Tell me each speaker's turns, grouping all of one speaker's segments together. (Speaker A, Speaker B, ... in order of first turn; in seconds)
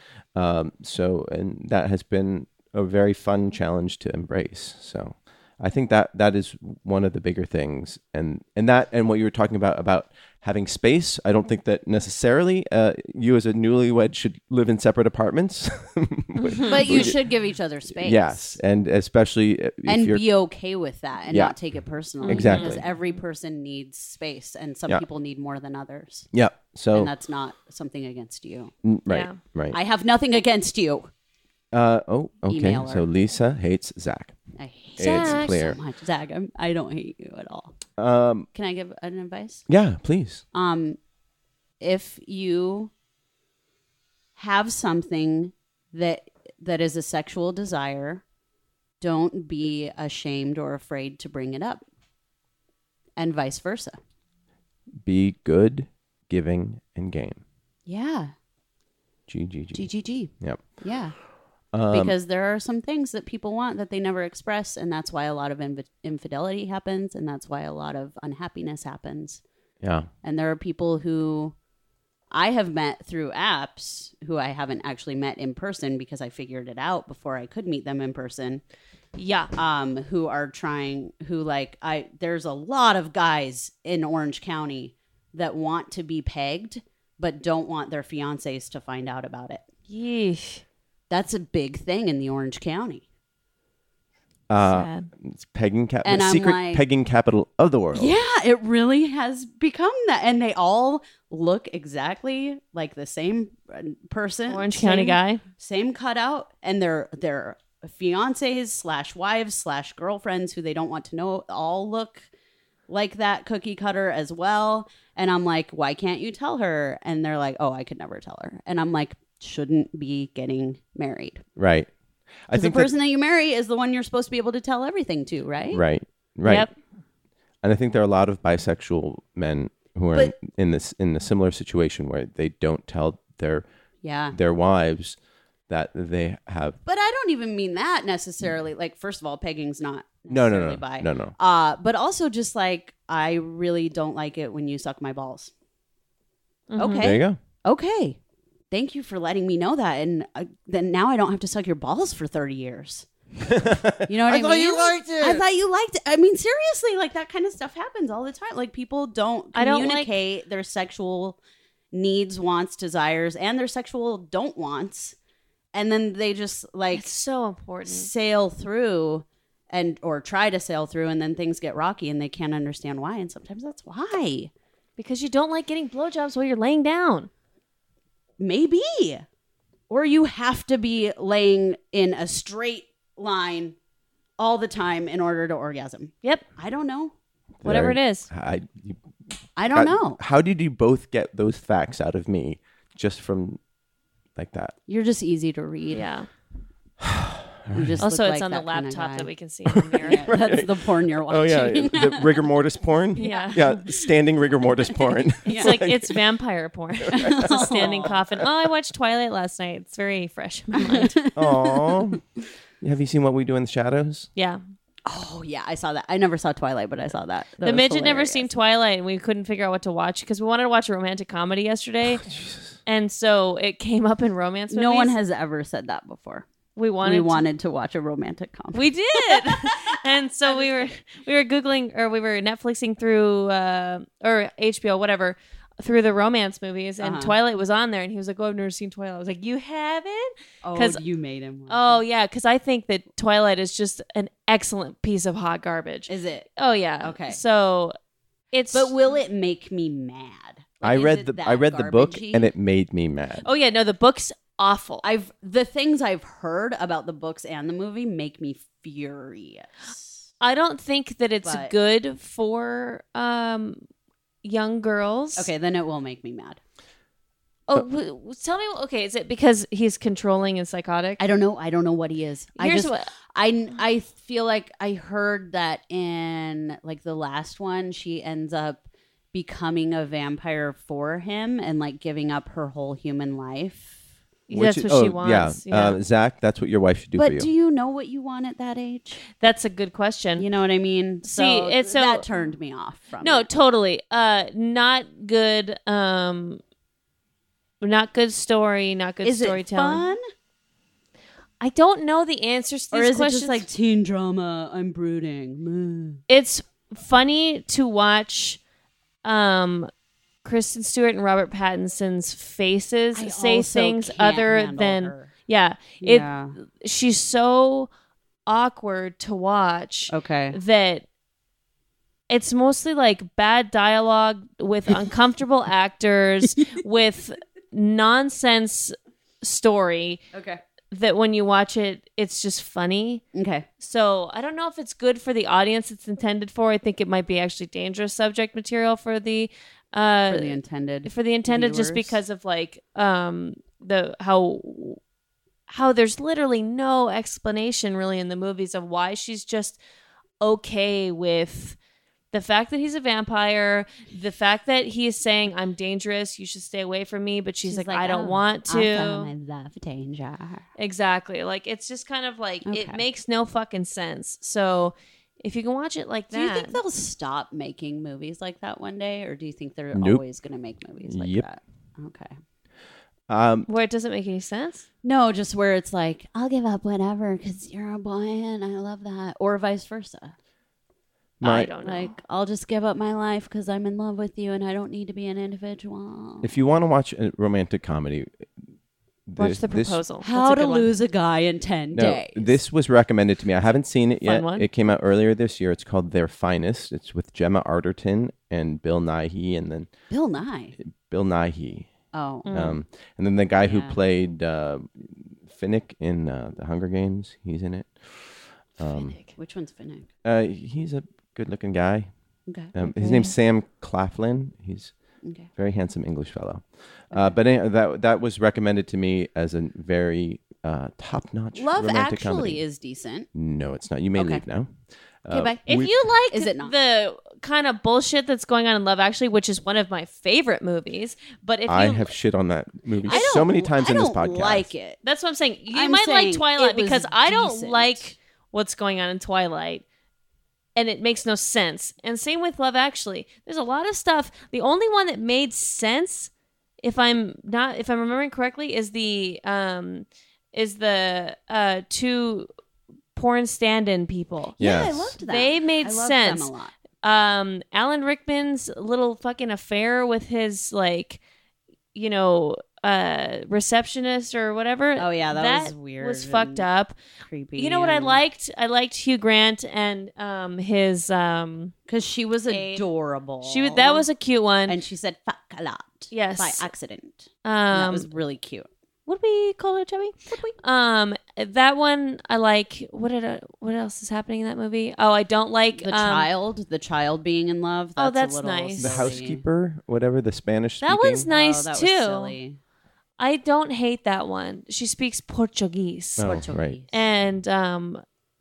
Speaker A: 0.3-17.2, 18.0-20.2, 21.3-21.6, 22.2-22.8, 26.3-27.1, 28.8-29.8, 31.7-34.4, 35.0-35.8, 38.0-38.5, 39.7-40.4, 55.0-57.4, 59.3-60.6, 61.7-62.1, 69.8-70.1, 94.5-98.1, 121.6-121.9, 122.5-122.9, 125.7-126.7, 127.6-133.7, 134.3-135.2, 135.7-136.8, 140.3-141.3, 147.0-147.4, 153.4-155.4, 187.6-189.0, 189.7-193.6, 194.4-194.8, 197.0-198.0, 199.7-206.2, 207.1-208.4, 211.3-212.2, 212.8-214.3, 222.2-222.8, 250.8-253.5, 284.5-287.5, 369.9-370.2, 371.1-371.5, 373.3-373.7, 381.4-381.7, 386.4-388.5, 389.3-390.0, 391.9-399.9, 400.8-401.9, 402.5-409.2, 410.2-412.1, 412.7-414.9, 415.5-422.6, 423.3-424.7, 425.2-425.9, 431.7-434.7, 454.6-455.2, 488.8-491.3, 496.2-496.8
Speaker B: 16.7-18.6, 19.9-26.3, 26.9-28.7, 29.7-31.1, 32.5-33.1, 34.6-37.7, 38.5-39.7, 40.5-41.0, 41.8-42.9, 44.4-48.2, 49.0-51.8, 53.2-54.0, 57.9-58.3, 59.7-61.1, 61.9-69.4, 70.2-71.5, 72.3-78.6, 79.5-89.6, 91.1-93.0, 96.0-96.8, 97.9-112.3, 112.9-121.4, 122.5-125.8, 134.0-134.3, 136.9-145.5, 146.8-148.2, 148.7-153.1, 154.0-161.4, 161.9-165.2, 165.7-167.1, 167.8-174.5, 178.4-179.3, 179.9-183.8, 184.4-187.1, 189.6-190.2, 194.9-196.1, 197.7-199.3, 200.1-202.3, 203.2-203.5, 205.4-205.8, 207.1-208.2, 210.8-212.2, 215.1-218.5, 224.7-226.5, 227.0-231.0, 237.0-237.3, 240.6-242.0, 246.1-246.5, 247.0-247.4, 248.7-252.5, 255.0-260.3, 261.4-261.7, 265.4-266.6, 271.2-284.0, 287.2-289.2, 290.4-293.5, 299.2-300.2, 302.9-306.2, 313.1-315.3, 316.0-316.6, 320.1-320.6, 330.3-330.6, 333.3-333.6, 340.3-342.2, 357.6-360.7, 362.6-363.0, 366.3-372.4, 375.0-380.4, 381.8-386.5, 390.2-392.6, 400.1-400.8, 402.1-402.5, 403.6-404.0, 409.4-410.1, 412.5-413.3, 415.2-415.5, 417.1-417.4, 421.6-423.3, 424.2-424.4, 425.3-425.8, 426.3-426.7, 433.1-435.0, 435.7-438.1, 454.6-456.7, 465.0-466.6, 467.3-468.2, 471.9-474.1, 474.7-478.7, 480.3-480.6, 485.8-489.4, 491.3-492.6, 496.2-496.9
Speaker C: 22.2-23.1, 29.1-29.4, 35.0-35.6, 79.2-79.5, 89.9-90.6, 94.6-95.1, 104.5-105.4, 126.5-126.7, 146.7-147.1, 159.5-160.1, 166.9-168.1, 175.0-177.3, 187.6-188.3, 195.9-196.3, 198.0-200.3, 203.2-203.9, 205.5-211.2, 214.4-214.6, 217.6-222.3, 222.9-225.2, 226.8-227.4, 228.7-241.0, 241.7-247.9, 248.5-248.9, 253.4-255.1, 260.4-263.8, 264.4-265.5, 267.7-271.2, 272.6-273.1, 284.5-286.0, 289.4-290.5, 291.2-292.3, 293.2-296.6, 297.8-300.1, 301.6-303.6, 306.3-308.6, 309.2-309.9, 310.4-317.9, 318.5-321.1, 322.3-330.2, 330.9-333.2, 333.8-345.0, 345.7-349.8, 350.4-351.8, 352.3-359.3, 360.8-366.8, 373.7-374.9, 381.4-382.1, 389.4-390.9, 394.2-394.7, 402.5-402.8, 408.8-409.3, 425.6-432.1, 433.0-433.3, 435.0-439.9, 440.8-446.3, 446.8-452.5, 453.2-454.6, 455.2-456.5, 457.0-461.2, 461.9-466.9, 467.6-471.7, 472.5-472.9, 473.4-474.8, 476.1-476.7, 477.4-478.1, 479.1-486.3, 488.0-489.1, 490.8-492.4, 493.2-496.3, 496.9-498.0